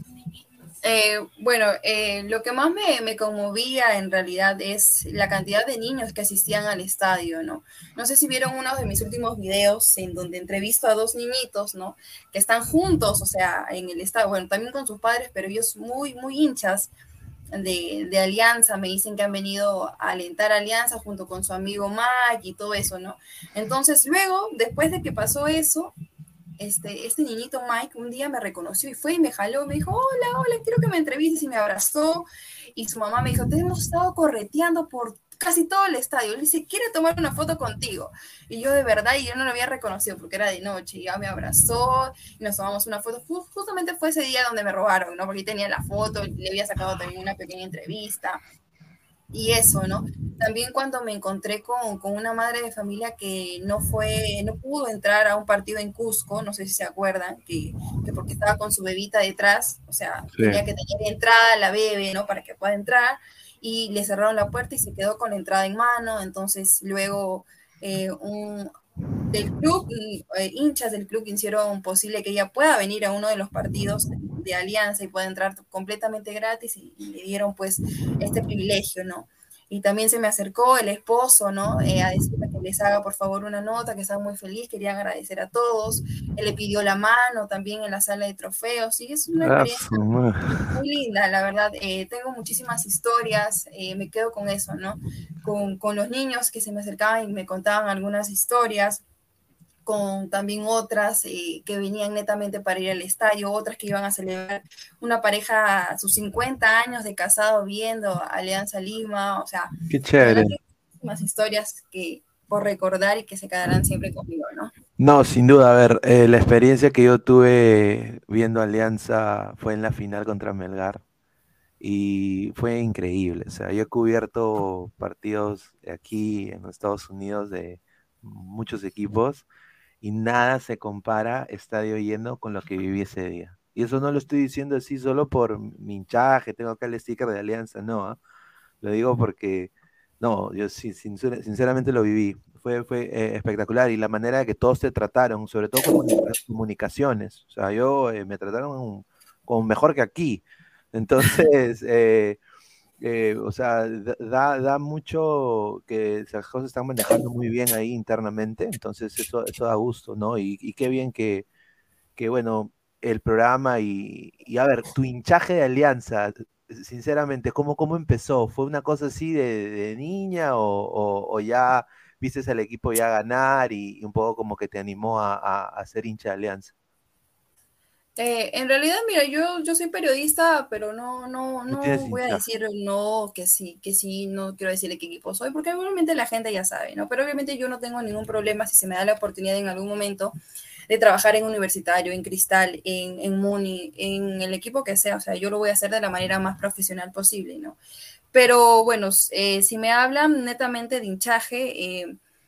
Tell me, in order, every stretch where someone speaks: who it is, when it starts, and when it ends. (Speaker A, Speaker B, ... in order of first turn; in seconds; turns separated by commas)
Speaker A: 0.8-16.9, Speaker A: 17.5-25.9, Speaker A: 26.6-48.4, Speaker A: 49.3-68.7, Speaker B: 60.3-60.6, Speaker A: 69.3-90.0, Speaker B: 89.4-90.7, Speaker A: 90.7-99.0, Speaker A: 99.8-114.7, Speaker B: 109.9-110.5, Speaker B: 115.0-121.0, Speaker B: 121.8-129.4, Speaker B: 130.0-138.2, Speaker B: 138.8-152.4, Speaker B: 153.0-161.4, Speaker B: 162.2-176.7, Speaker A: 178.2-190.3, Speaker B: 181.7-182.4, Speaker A: 190.9-197.8, Speaker A: 198.3-202.1